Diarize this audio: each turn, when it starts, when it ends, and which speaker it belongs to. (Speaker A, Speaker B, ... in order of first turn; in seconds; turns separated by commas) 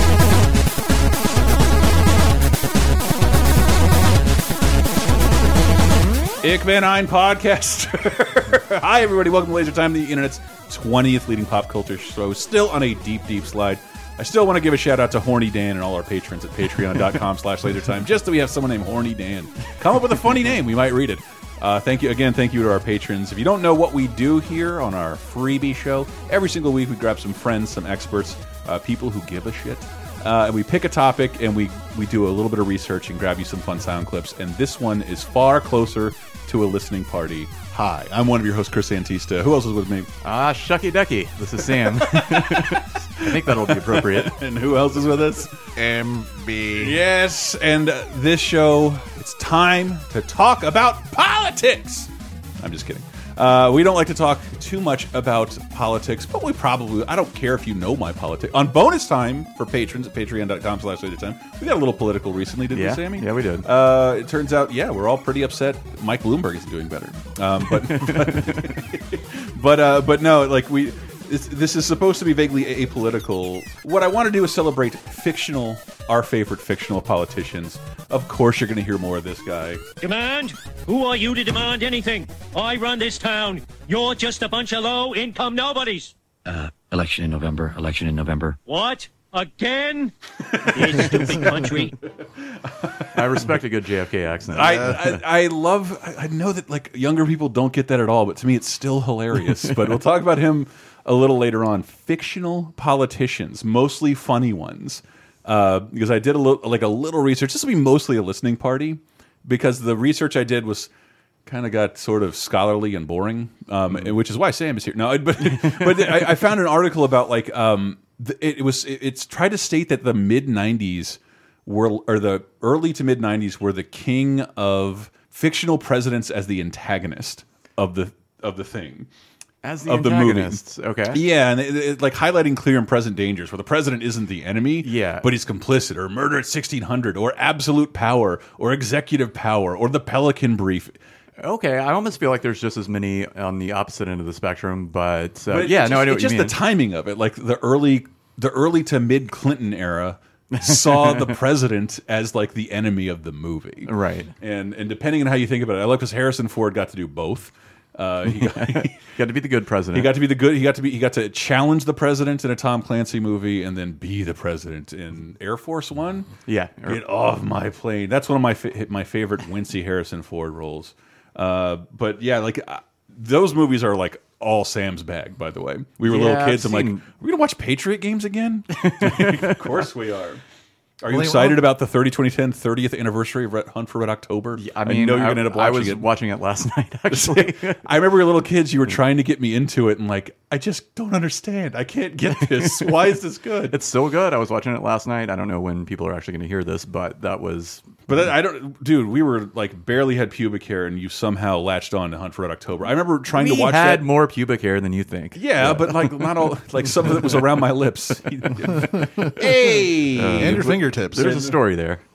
Speaker A: 6.4-40.1, Speaker B: 16.7-17.2, Speaker B: 20.1-20.5, Speaker B: 40.2-44.3, Speaker A: 41.6-45.5, Speaker C: 45.8-47.0, Speaker A: 46.8-79.8, Speaker B: 62.7-63.6, Speaker B: 67.7-68.8, Speaker D: 80.0-86.1, Speaker E: 86.5-88.6, Speaker D: 88.6-90.1, Speaker A: 90.5-91.0, Speaker D: 90.7-91.9, Speaker A: 92.2-93.4, Speaker B: 93.1-95.2, Speaker A: 94.5-110.9, Speaker C: 94.6-95.0, Speaker B: 99.4-100.0, Speaker A: 111.5-129.1, Speaker B: 113.9-114.1, Speaker B: 115.4-116.4, Speaker B: 129.6-131.2, Speaker A: 129.8-140.9, Speaker B: 134.8-135.3, Speaker B: 141.4-146.6, Speaker A: 145.5-159.0, Speaker B: 150.5-151.3, Speaker B: 153.9-154.3, Speaker B: 158.2-160.1, Speaker A: 159.9-166.3, Speaker B: 166.5-167.0, Speaker A: 166.8-180.4, Speaker B: 176.0-177.1, Speaker B: 178.8-179.8, Speaker A: 181.0-186.1, Speaker C: 181.1-181.6, Speaker B: 184.6-187.8, Speaker A: 187.1-193.8, Speaker B: 192.2-193.2, Speaker B: 193.7-197.8, Speaker A: 198.1-204.1, Speaker B: 203.3-207.5, Speaker A: 205.3-211.6, Speaker C: 208.8-209.6, Speaker B: 210.2-212.0, Speaker C: 210.3-211.3